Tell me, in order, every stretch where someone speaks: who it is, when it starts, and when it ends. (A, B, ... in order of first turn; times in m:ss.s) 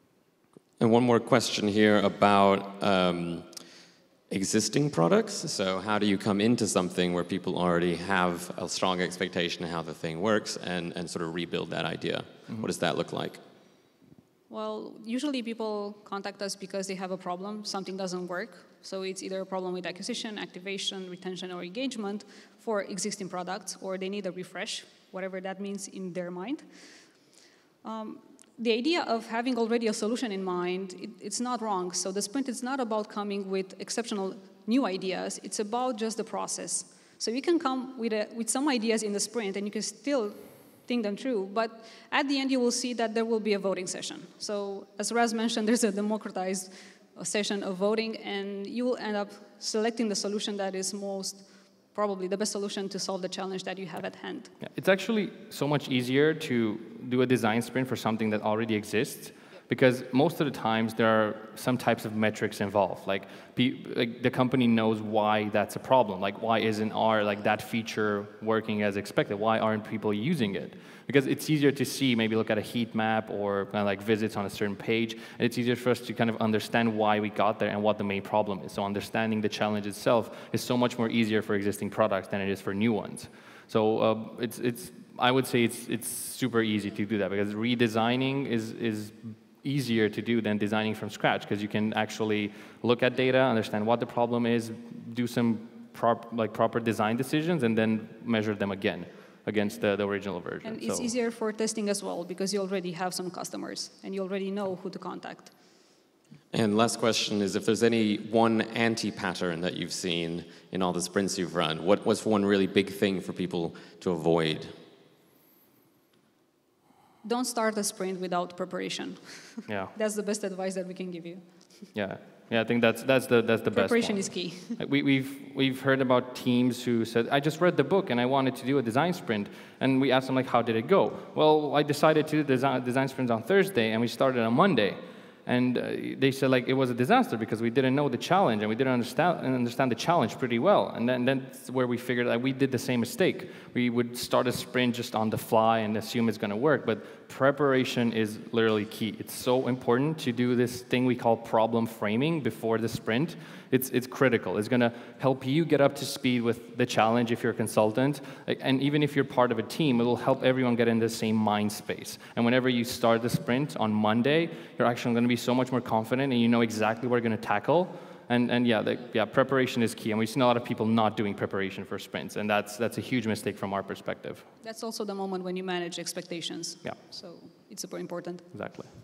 0:00.8-0:03.4 A
0:04.3-0:13.4 A
0:14.5-0:26.6 B
0:27.8-0:54.5 B
0:54.6-1:41.1 C
1:40.6-1:45.5 B
1:46.5-1:54.7 A
1:57.2-2:01.4 B
2:01.9-2:54.4 C
2:03.7-2:04.8 B
2:54.6-2:58.5 B
2:58.5-2:58.9 C